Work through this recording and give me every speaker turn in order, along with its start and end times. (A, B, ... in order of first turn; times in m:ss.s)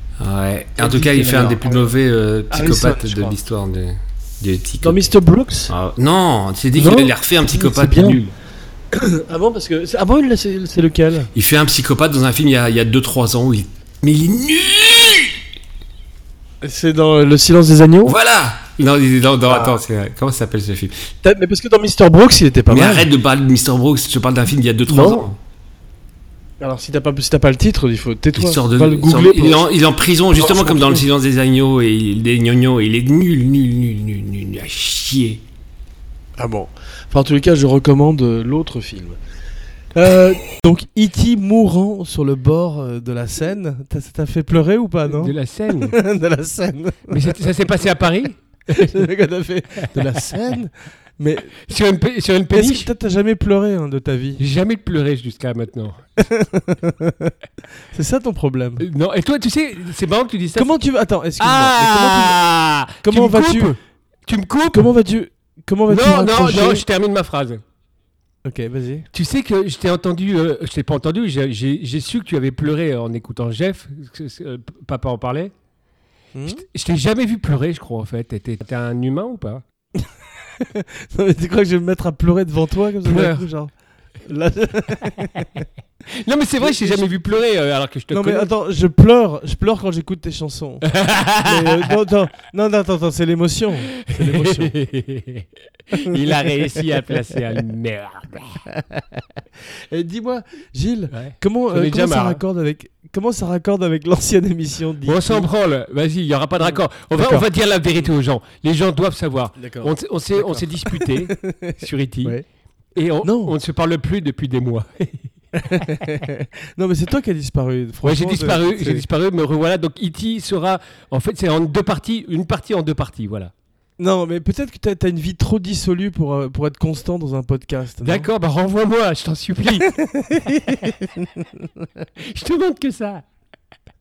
0:00.2-0:05.0 A
0:00.8-0:01.9 B
0:02.5-0:03.4 B
0:04.8-0:05.7 B
0:05.7-0:08.3 A
0:06.8-0:08.2 B
0:08.9-0:11.3 B
0:11.3-0:15.4 A
0:16.6-0:18.2 B
0:18.1-0:21.0 A
0:19.5-0:19.8 B
0:21.2-0:23.1 B
0:22.7-0:25.4 A
0:24.9-0:25.2 B
0:26.6-0:29.6 B
0:28.4-0:35.4 A
0:30.3-0:31.1 B
0:36.4-0:39.2 B
0:40.0-0:47.4 B
0:45.1-0:46.0 C
0:47.1-0:49.1 C
0:48.7-0:51.6 B
0:49.8-0:50.3 C
0:51.6-0:52.9 C
0:52.5-0:54.4 B
0:54.4-0:56.0 C
0:56.2-0:57.3 B
0:57.9-0:58.8 B
0:58.8-1:00.8 C
1:00.6-1:02.4 B
1:01.4-1:03.8 C
1:03.0-1:03.8 B
1:04.3-1:04.9 C
1:04.7-1:06.8 B
1:05.9-1:07.6 C
1:08.4-1:09.1 B
1:09.1-1:15.5 C
1:16.4-1:16.6 B
1:16.5-1:19.6 C
1:20.6-1:23.7 B
1:23.0-1:23.5 C
1:24.2-1:25.6 B
1:26.1-1:28.5 C
1:26.6-1:27.2 B
1:28.1-1:30.9 B
1:30.9-1:31.9 C
1:31.4-1:34.7 B
1:34.0-1:38.6 C
1:39.9-1:45.5 B
1:41.1-1:42.4 C
1:45.1-1:52.4 C
1:46.6-1:47.5 B
1:49.6-1:52.4 B
1:53.0-1:55.9 C
1:53.2-1:53.5 B
1:55.6-1:59.0 B
1:58.0-2:03.5 C
2:04.0-2:08.3 B
2:08.0-2:10.9 C
2:10.0-2:11.5 B
2:12.2-2:13.2 C